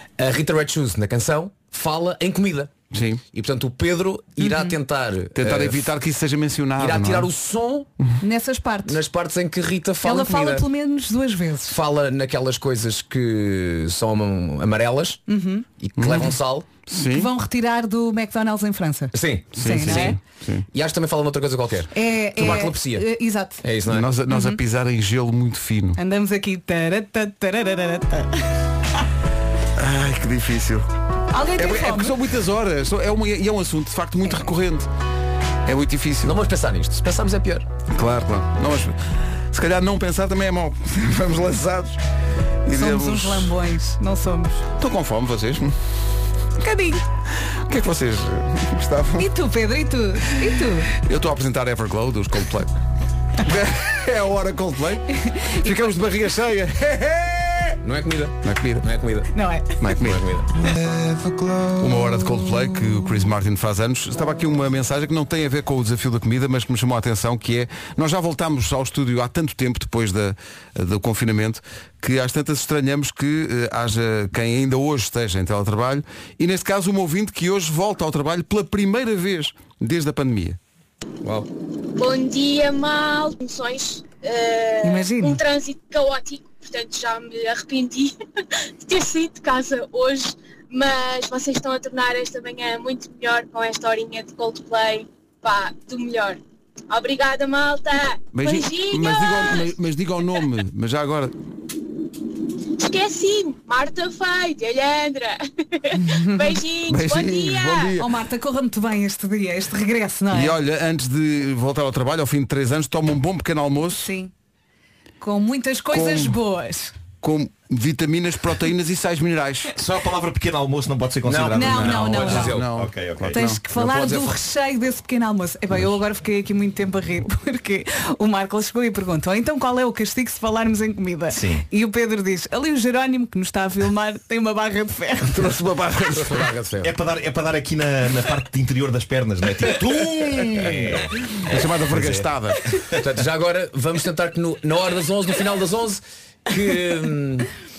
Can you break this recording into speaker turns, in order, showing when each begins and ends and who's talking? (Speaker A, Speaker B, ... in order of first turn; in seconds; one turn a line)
Speaker A: 0.2-2.7
Speaker B: 2.9-3.2
Speaker A: 3.3-5.9
Speaker C: 4.4-4.8
Speaker B: 5.4-7.3
Speaker A: 6.8-7.9
Speaker C: 8.2-9.0
Speaker A: 8.8-10.7
Speaker C: 10.0-11.8
Speaker A: 11.7-15.2
Speaker C: 15.3-15.6
Speaker A: 15.8-16.7
Speaker B: 16.0-16.3
Speaker B: 16.9-17.3
Speaker C: 17.0-20.2
Speaker A: 19.1-20.2
Speaker B: 19.6-20.6
Speaker A: 20.7-23.1
Speaker C: 21.9-23.6
Speaker A: 23.6-24.1
Speaker B: 23.9-26.0
Speaker C: 24.3-24.6
Speaker C: 26.0-28.5
Speaker B: 29.8-30.9
Speaker C: 31.3-32.2
Speaker B: 31.6-34.9
Speaker B: 35.6-36.4
Speaker A: 36.2-37.6
Speaker B: 37.9-39.0
Speaker B: 39.5-42.0
Speaker B: 42.6-43.6
Speaker C: 42.7-44.6
Speaker B: 44.8-45.8
Speaker C: 46.6-47.0
Speaker B: 47.4-49.3
Speaker C: 49.2-50.9
Speaker B: 50.9-52.7
Speaker B: 53.4-57.8
Speaker A: 57.8-59.3
Speaker B: 58.4-58.9
Speaker C: 59.3-59.8
Speaker B: 59.8-60.2
Speaker A: 60.0-60.5
Speaker B: 60.9-80.6
Speaker A: 81.2-81.5
Speaker D: 81.9-88.1
Speaker C: 84.8-85.4
Speaker D: 88.8-99.7
Speaker B: 98.3-101.3
Speaker D: 102.8-107.9
Speaker C: 106.2-106.5
Speaker B: 106.9-108.1
Speaker C: 108.0-110.6
Speaker B: 110.3-114.1
Speaker C: 113.9-114.3
Speaker C: 115.2-116.9
Speaker B: 115.9-116.4
Speaker B: 117.2-119.7
Speaker E: 119.8-123.4
Speaker A: 121.3-122.7
Speaker C: 121.5-122.6
Speaker B: 121.6-123.6
Speaker C: 123.3-135.5
Speaker A: 123.8-124.3
Speaker E: 131.3-131.6
Speaker B: 135.3-136.5
Speaker A: 136.1-136.9
Speaker E: 136.8-141.1
Speaker A: 140.6-142.3
Speaker B: 141.4-142.7
Speaker A: 142.9-147.5